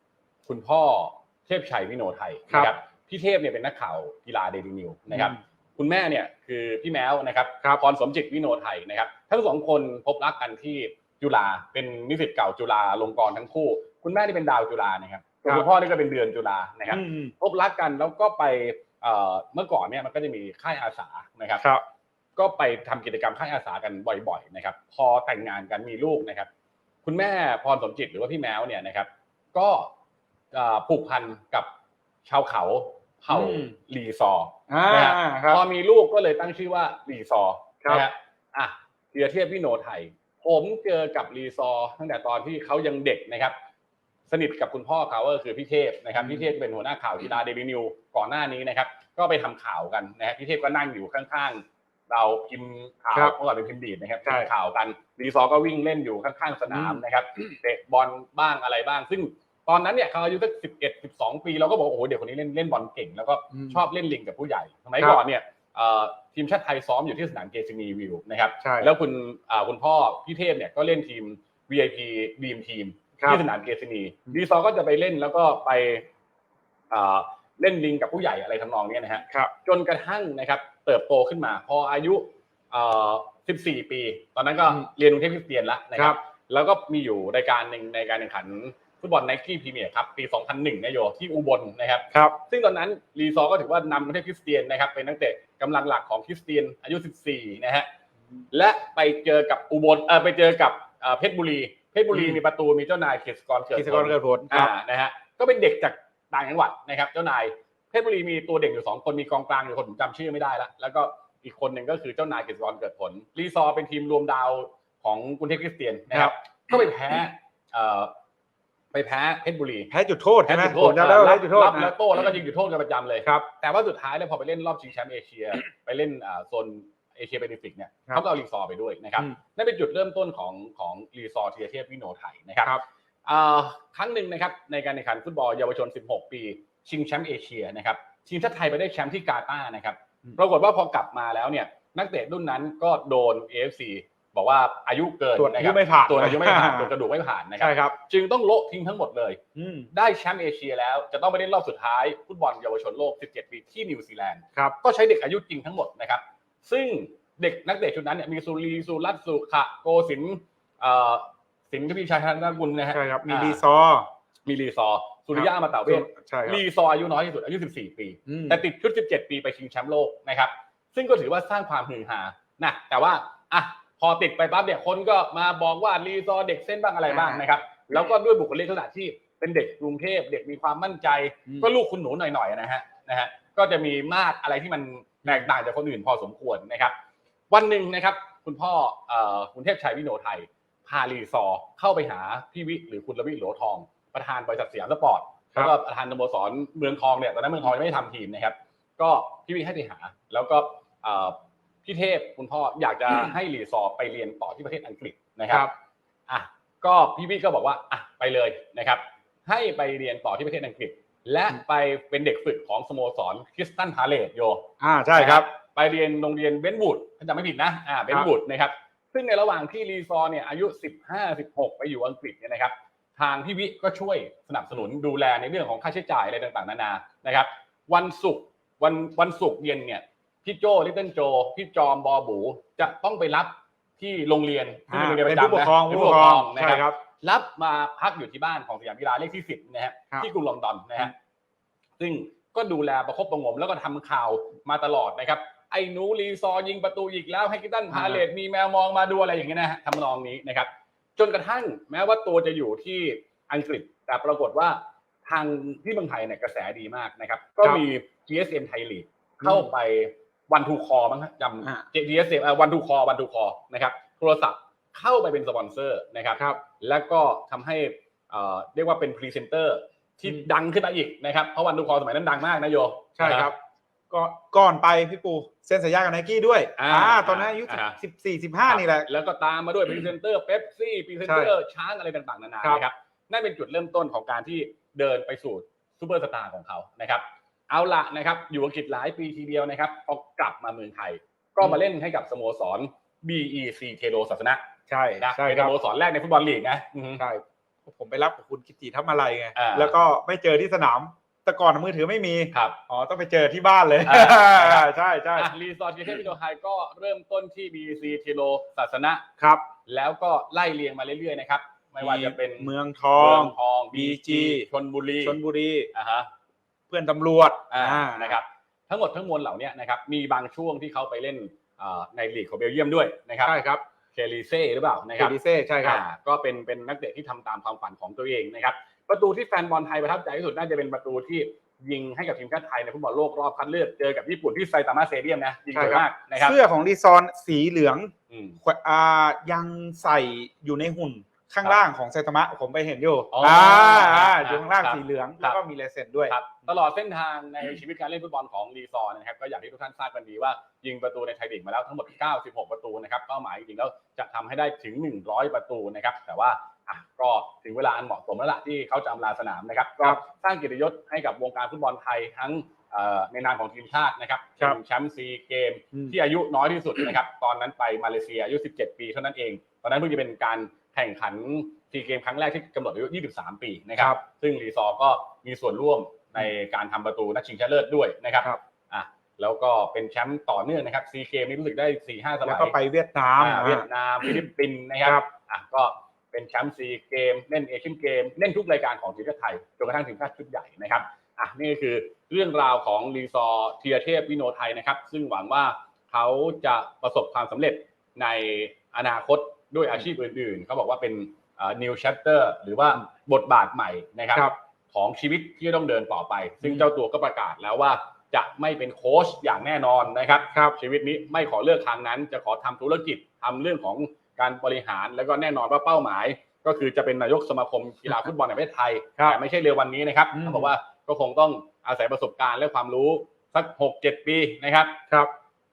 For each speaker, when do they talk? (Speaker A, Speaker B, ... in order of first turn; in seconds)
Speaker A: 0.5-21.6, 22.4-26.5, 27.0-29.9, 30.5-31.7, 32.2-43.5, 44.3-76.0, 76.9-97.9, 98.5-118.1, 118.9-119.9, 120.5-132.7, 133.2-149.4, 149.9-163.6, 164.4-186.9, 187.5-205.7, 206.3-241.1, 242.0-273.5, 276.8-278.0, 278.7-294.6, 295.2-297.2, 299.5-299.9, 302.5-302.8, 304.0-309.2, 309.9-315.4, 315.9-316.3, 317.7-323.6, 324.1-336.6, 338.3-338.6, 343.3-345.6, 346.3-382.7, 383.4-425.0
Speaker B: 5.1-5.4, 16.9-17.3, 33.3-33.7, 34.7-35.6, 46.2-46.4, 56.7-57.0, 63.5-63.8, 68.6-68.9, 73.2-73.4, 102.1-102.4, 103.7-104.7, 119.9-121.9, 145.3-146.9, 147.6-147.9, 149.6-149.9, 162.9-164.1, 165.3-166.6, 168.3-168.6, 177.1-177.4, 214.8-215.5, 234.9-236.9, 247.9-248.2, 259.4-259.7, 273.2-273.5, 274.1-279.1, 281.2-281.5, 294.9-295.7, 297.2-305.5, 312.0-314.7, 315.2-315.9, 316.9-318.4, 323.4-323.8, 325.2-326.0, 335.7-338.1, 338.6-346.7, 382.4-384.4, 410.5-410.8, 420.3-420.7